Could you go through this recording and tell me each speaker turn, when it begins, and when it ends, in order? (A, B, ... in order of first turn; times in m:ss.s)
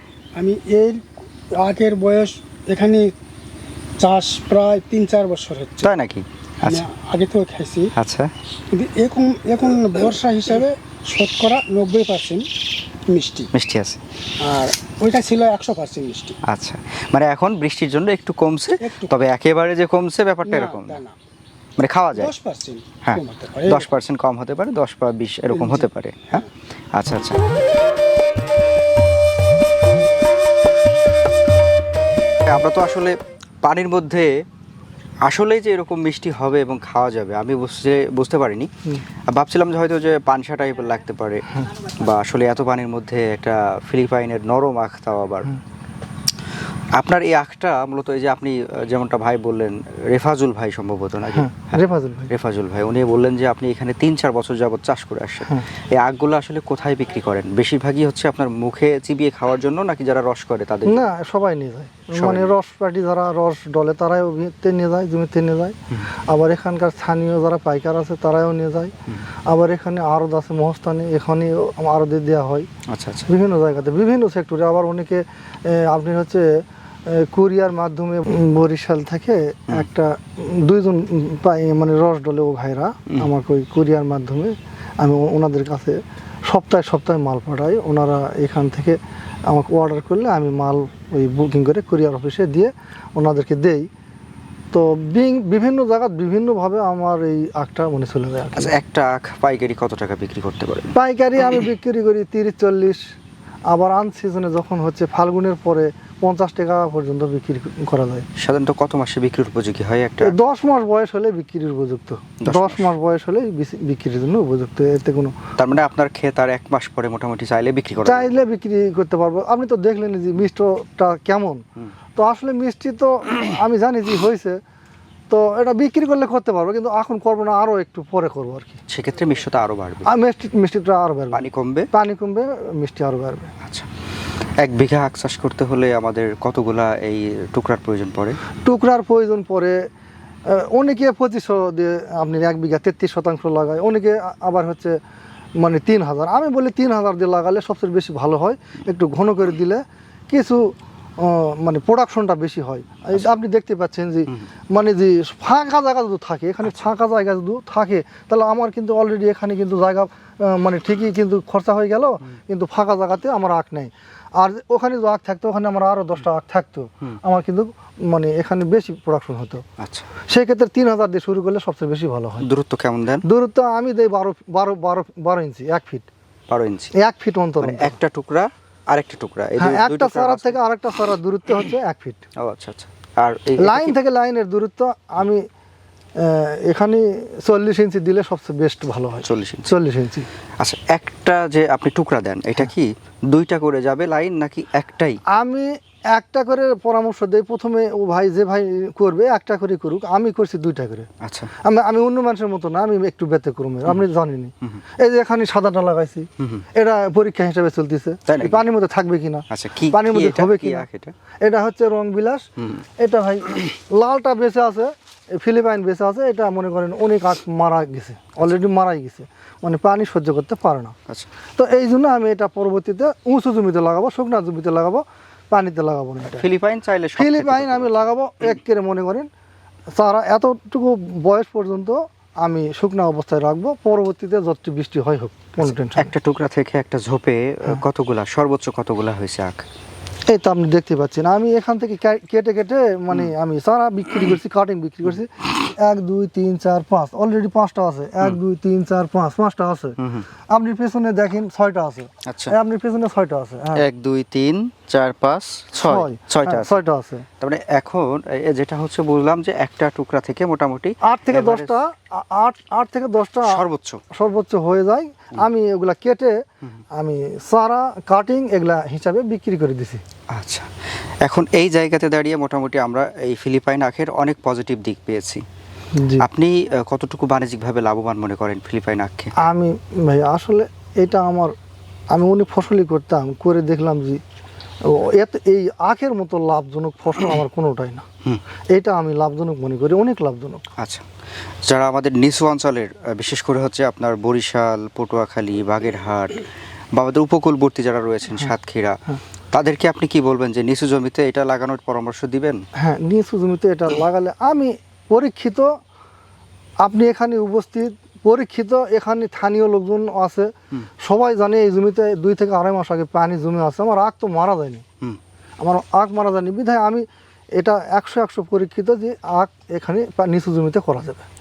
0:00.4-0:03.1 A
0:04.0-0:05.9 A
0:05.8-0:06.9 B
0:06.7-0:07.9 A
0:08.0-0:08.3 B
0:08.7-0:12.5 A
0:13.1-0:13.5 A
0:13.5-0:14.0 B
0:14.4-0:16.4 A
0:16.5-0:21.0 B
0:18.8-0:19.1 A
0:20.4-0:21.2 A
0:21.8-0:22.3 B
0:22.2-0:24.0 A
0:23.0-0:27.4 B
0:25.5-0:25.9 A
0:32.4-0:34.4 B
0:35.2-0:38.7 B
0:39.3-0:45.5 B
0:47.0-1:01.1 B
0:51.3-0:52.3 C
1:00.9-1:05.8 C
1:02.1-1:02.5 B
1:06.3-1:08.9 C
1:09.5-1:12.7 C
1:12.9-1:13.3 B
1:13.3-1:16.5 C
1:17.1-1:33.9 C
1:34.7-1:38.7 C
1:38.6-1:40.9 B
1:41.0-1:43.0 C
1:43.7-1:48.2 C
1:48.4-1:50.3 B
1:50.2-1:55.4 C
1:52.4-1:52.9 B
1:55.6-1:58.3 B
1:58.0-2:01.6 C
2:02.2-2:04.6 C
2:05.3-2:08.8 C
2:08.9-2:10.1 B
2:10.1-2:13.5 C
2:11.3-2:11.9 B
2:13.6-2:13.9 B
2:14.6-2:18.4 B
2:18.6-2:19.8 C
2:20.5-2:25.0 C
2:25.6-2:30.6 C
2:31.2-2:49.6 C
2:36.6-2:36.9 B
2:49.8-2:50.1 B
2:50.3-2:52.5 C
2:52.4-2:53.2 B
2:53.3-2:56.1 C
2:56.5-2:56.9 B
2:56.9-2:58.0 C
2:57.6-3:00.6 B
2:59.6-3:02.2 C
3:02.4-3:04.0 B
3:03.6-3:05.4 C
3:06.2-3:10.3 C
3:09.2-3:09.7 B
3:10.6-3:15.2 B
3:15.4-3:21.1 C
3:21.2-3:21.5 B
3:21.6-3:30.9 C
3:26.4-3:26.7 B
3:28.3-3:28.6 B
3:29.5-3:31.1 B
3:31.4-3:32.5 C
3:33.0-3:40.9 C
3:41.6-3:46.5 C
3:46.3-3:48.1 B
3:47.2-3:49.3 C
3:50.0-3:56.1 C
3:55.6-3:59.6 B
4:00.3-4:10.0 C
4:10.0-4:10.3 B
4:10.5-4:13.8 C
4:12.2-4:12.6 B
4:13.8-4:16.8 B
4:15.8-4:17.3 C
4:17.4-4:21.8 B
4:21.0-4:26.4 C
4:23.4-4:24.0 B
4:27.0-4:30.0 C
4:30.3-4:30.7 B
4:31.2-4:35.4 B
4:35.9-4:36.2 C
4:36.2-4:39.3 B
4:39.4-4:41.5 C
4:42.1-4:44.2 C
4:44.9-4:48.0 C
4:48.7-4:50.7 C
4:50.8-4:51.0 B
4:51.7-4:56.4 B
4:57.0-4:59.0 B
4:59.5-5:02.6 B
5:02.8-5:05.7 C
5:06.8-5:14.8 C
5:15.6-5:17.0 C
5:17.6-5:21.3 C